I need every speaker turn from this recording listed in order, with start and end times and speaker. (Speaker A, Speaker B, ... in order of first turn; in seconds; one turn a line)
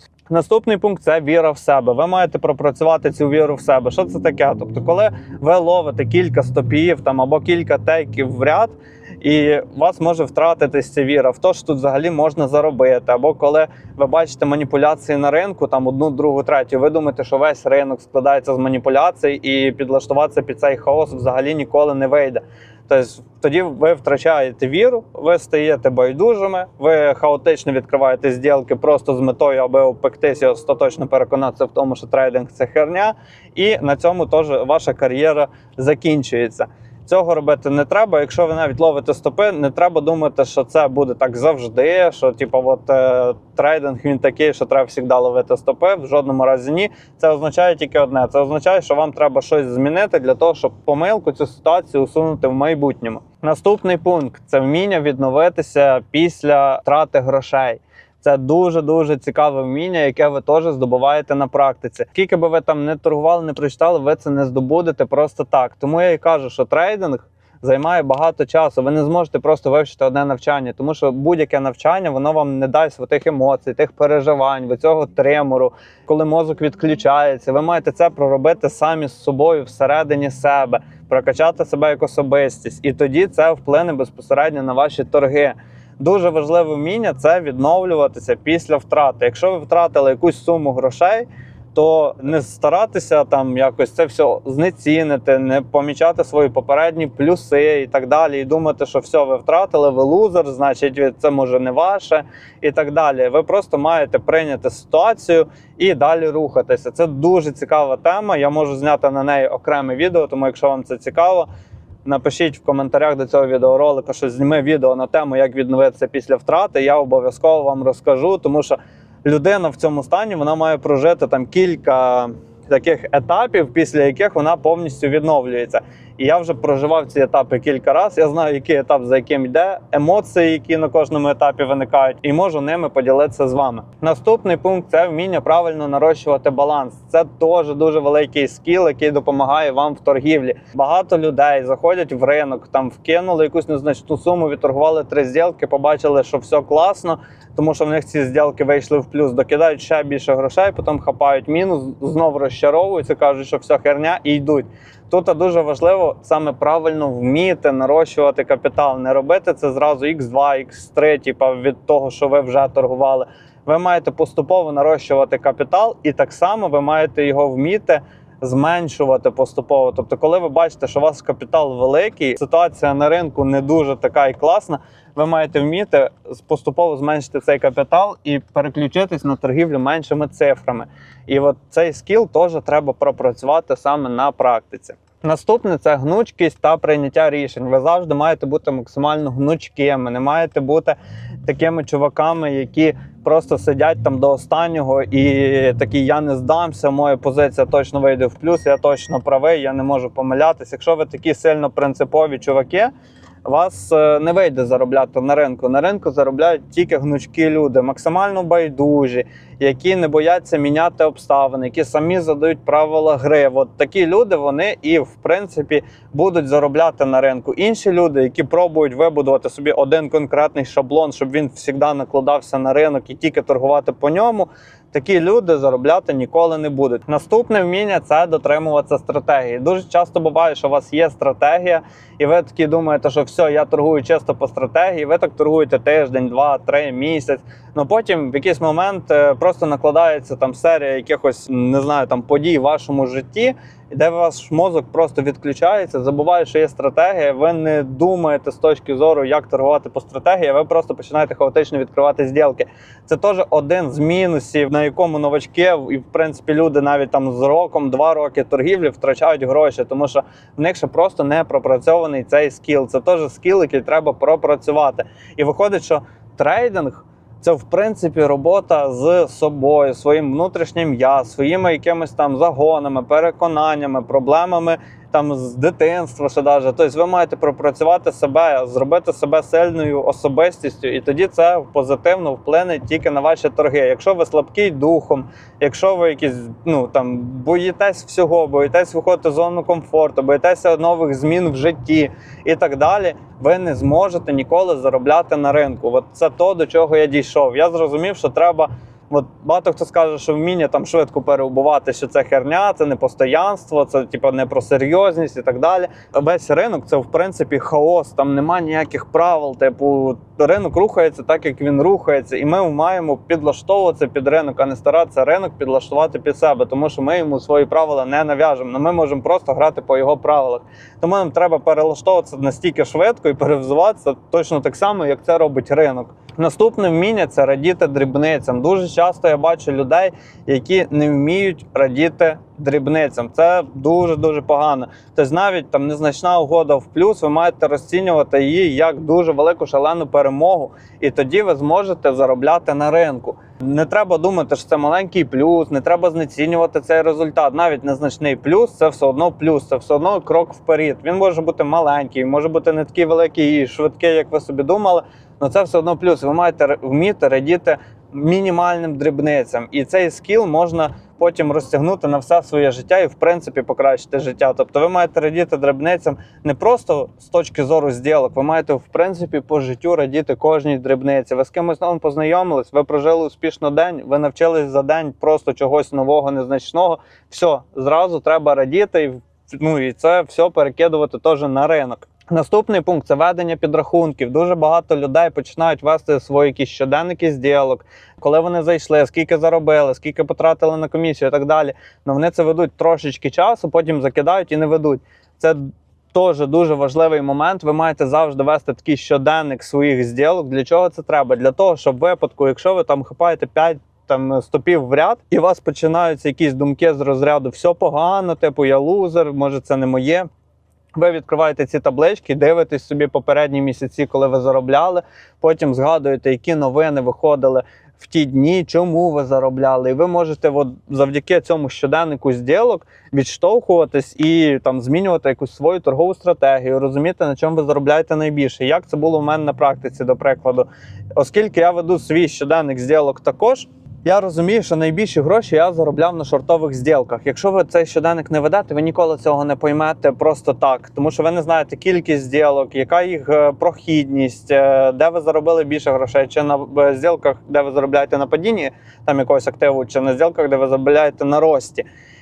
Speaker A: 0.3-111.5
Speaker A: 112.0-202.9
Speaker A: 203.4-410.3
Speaker A: 411.0-451.9